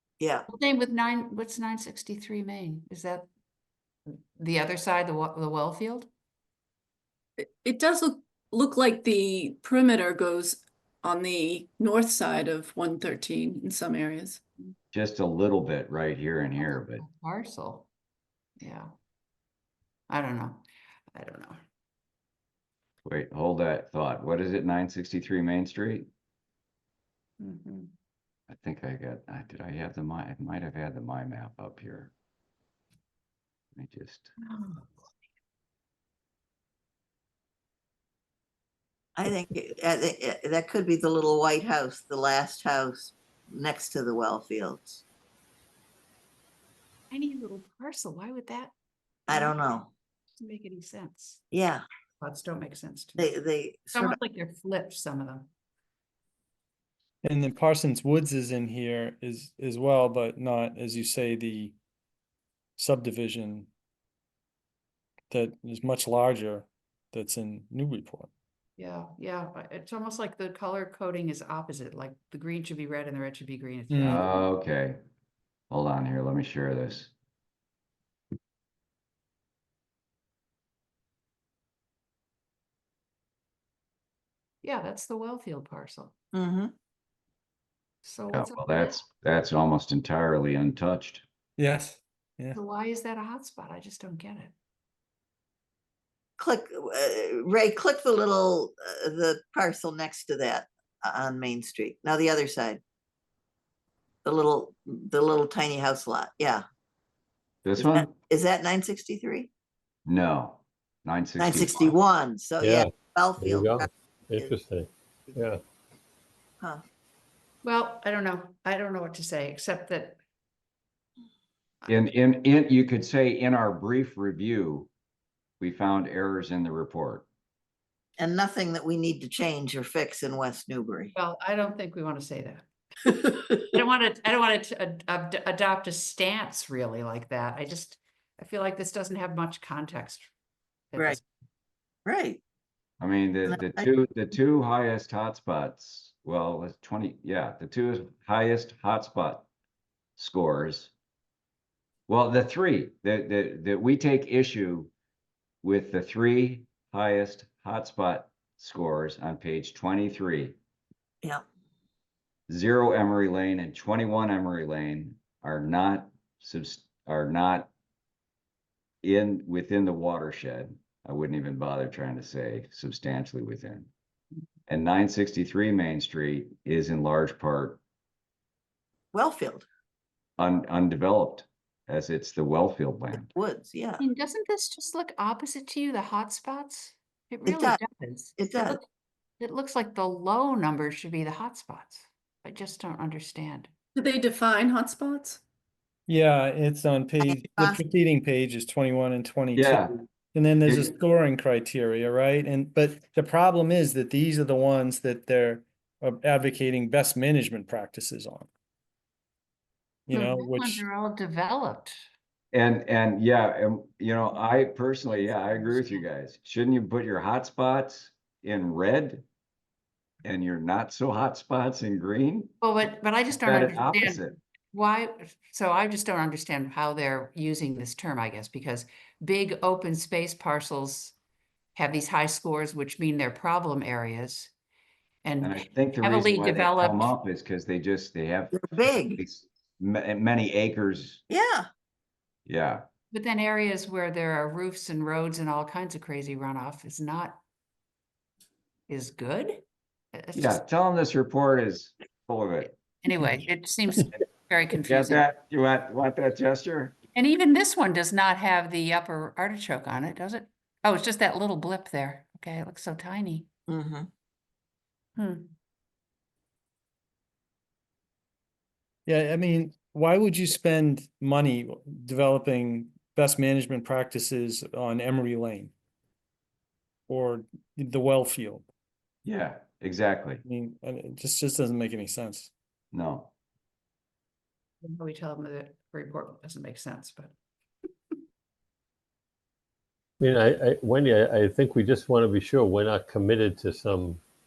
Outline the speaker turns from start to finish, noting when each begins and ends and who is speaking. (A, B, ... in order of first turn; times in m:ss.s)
0:00.2-0:00.5 A
0:00.5-0:03.3 B
0:04.1-0:06.1 B
0:07.4-0:14.4 C
0:14.9-0:17.0 D
0:16.6-0:17.9 B
0:18.6-0:18.9 B
0:20.1-0:21.6 B
0:23.0-0:26.1 D
0:27.4-0:27.9 B
0:28.5-0:32.1 D
0:33.8-0:34.3 D
0:34.4-0:34.9 B
0:39.2-0:45.0 A
0:47.1-0:48.7 B
0:49.3-0:49.9 A
0:49.3-0:49.6 B
0:50.4-0:51.4 B
0:51.5-0:51.8 A
0:52.2-0:53.2 B
0:53.2-0:54.2 A
0:53.9-0:55.5 B
0:57.2-1:01.8 E
1:02.8-1:03.7 E
1:05.3-1:08.3 E
1:08.8-1:14.5 B
1:13.9-1:14.3 E
1:14.0-1:15.0 D
1:15.7-1:17.1 D
1:24.6-1:26.1 B
1:26.3-1:26.7 A
1:28.0-1:29.0 B
1:28.3-1:31.2 D
1:31.6-1:32.6 E
1:32.5-1:34.5 B
1:36.4-1:42.8 A
1:44.2-1:46.6 A
1:47.6-1:48.1 D
1:47.8-1:49.5 A
1:50.1-1:52.0 D
1:51.4-1:54.5 A
1:52.6-1:55.6 F
1:57.6-2:00.2 B
2:01.9-2:04.9 D
2:05.6-2:07.3 D
2:08.2-2:11.1 A
2:11.2-2:12.7 B
2:13.5-2:20.3 B
2:20.9-2:21.2 B
2:22.1-2:22.4 A
2:23.0-2:29.5 D
2:23.5-2:23.9 A
2:30.2-2:30.9 D
2:32.1-2:34.9 D
2:35.6-2:40.6 D
2:42.5-2:47.7 D
2:49.0-2:53.9 D
2:54.7-2:57.8 D
2:59.1-2:59.7 A
3:00.4-3:03.3 D
3:03.3-3:04.0 A
3:04.0-3:08.8 B
3:07.5-3:07.8 A
3:08.4-3:08.8 A
3:09.4-3:13.7 B
3:14.0-3:15.4 C
3:16.1-3:28.5 E
3:17.2-3:17.8 A
3:19.6-3:19.9 D
3:20.6-3:20.9 D
3:30.1-3:30.8 E
3:30.1-3:32.0 B
3:32.5-3:39.3 D
3:35.1-3:36.1 B
3:40.2-3:42.5 D
3:42.6-3:51.2 B
3:43.3-3:44.4 D
3:51.8-3:54.5 B
3:55.2-3:57.1 B
3:55.4-4:01.2 D
3:58.6-3:59.2 A
4:01.3-4:01.7 A
4:02.5-4:02.9 D
4:03.1-4:07.4 B
4:08.9-4:09.6 B
4:10.1-4:10.6 B
4:10.3-4:12.7 D
4:12.6-4:15.3 B
4:14.8-4:17.0 D
4:17.2-4:23.5 B
4:23.7-4:24.1 A
4:25.2-4:25.5 B
4:29.1-4:35.7 E
4:37.1-4:38.7 E
4:39.2-4:40.4 D
4:40.4-4:42.5 E
4:42.9-4:43.3 D
4:44.8-4:47.3 B
4:50.2-4:54.2 F